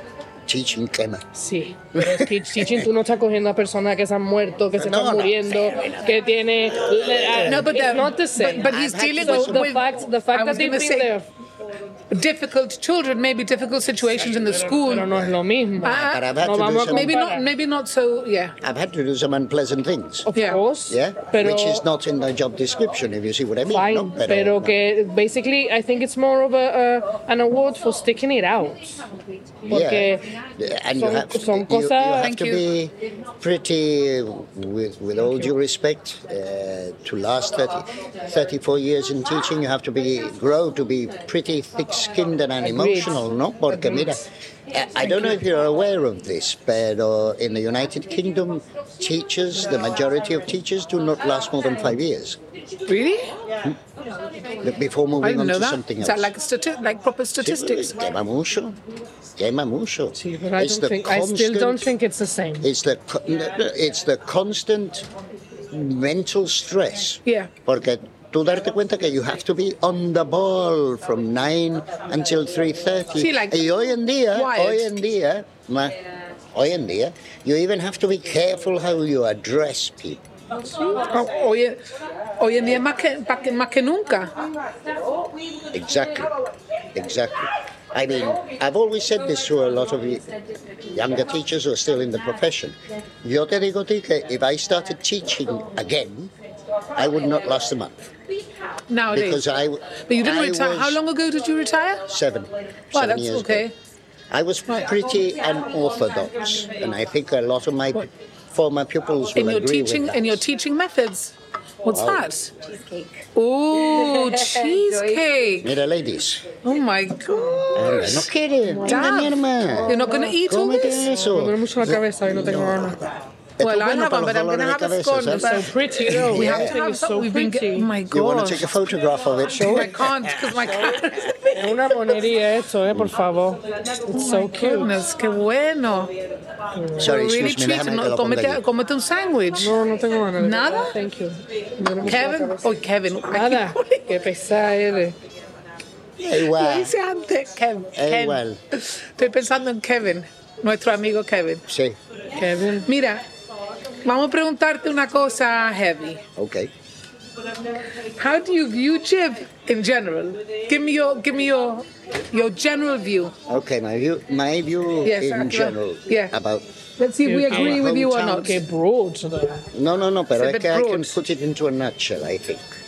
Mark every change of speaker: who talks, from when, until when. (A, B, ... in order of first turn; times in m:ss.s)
0:00.5-0:01.2 A
0:01.3-0:11.3 B
0:02.0-0:02.9 A
0:04.8-0:07.7 A
0:07.4-0:11.1 C
0:08.6-0:09.7 A
0:12.1-0:15.1 C
0:14.7-0:17.5 B
0:15.8-0:16.3 C
0:15.8-0:17.2 A
0:16.9-0:18.6 C
0:18.6-0:20.3 A
0:20.3-0:21.8 B
0:20.3-0:20.6 C
0:20.9-0:24.8 A
0:23.7-0:29.0 B
0:29.6-0:30.3 B
0:29.7-0:52.4 A
0:31.0-0:32.3 B
0:32.1-0:32.6 C
0:42.6-0:44.1 B
0:52.9-0:53.3 C
0:54.6-0:56.3 A
0:55.2-0:58.0 C
0:57.4-0:58.8 A
0:59.4-1:01.9 A
1:00.2-1:02.7 B
1:02.6-1:05.1 A
1:05.7-1:16.0 A
1:07.3-1:07.5 C
1:13.2-1:13.6 C
1:14.3-1:15.0 C
1:16.5-1:20.2 A
1:21.0-1:21.8 C
1:22.4-1:24.3 C
1:25.7-1:26.3 A
1:26.9-1:30.3 A
1:30.9-1:36.3 A
1:37.0-1:38.1 A
1:38.9-1:39.4 C
1:39.1-1:41.0 A
1:40.1-1:42.0 C
1:42.0-1:43.7 A
1:42.9-1:43.7 C
1:44.3-1:50.4 A
1:49.4-1:52.5 C
1:51.9-1:52.2 A
1:53.4-1:55.7 C
1:55.6-1:56.5 A
1:56.6-1:58.3 C
1:57.8-2:06.8 A
1:58.8-2:01.1 C
2:00.0-2:00.3 B
2:01.2-2:03.0 B
2:03.6-2:08.7 C
2:05.4-2:07.9 B
2:08.1-2:10.9 A
2:09.6-2:09.8 B
2:09.6-2:12.2 C
2:11.6-2:15.0 B
2:14.1-2:16.1 C
2:16.8-2:17.1 B
2:17.0-2:18.6 A
2:17.0-2:19.8 C
2:19.6-2:22.7 B
2:20.4-2:21.0 C
2:22.0-2:24.0 C
2:23.3-2:25.2 B
2:26.2-2:27.0 A
2:26.3-2:31.6 C
2:28.0-2:28.6 A
2:31.7-2:32.0 A
2:32.4-2:32.9 B
2:32.9-2:33.2 C
2:34.0-2:36.2 C
2:36.4-2:36.7 A
2:38.2-2:43.4 C
2:43.5-2:46.7 A
2:45.0-2:46.3 C
2:47.0-2:48.6 C
2:47.2-2:49.7 B
2:47.5-2:48.6 A
2:49.7-2:52.6 A
2:50.4-2:51.2 C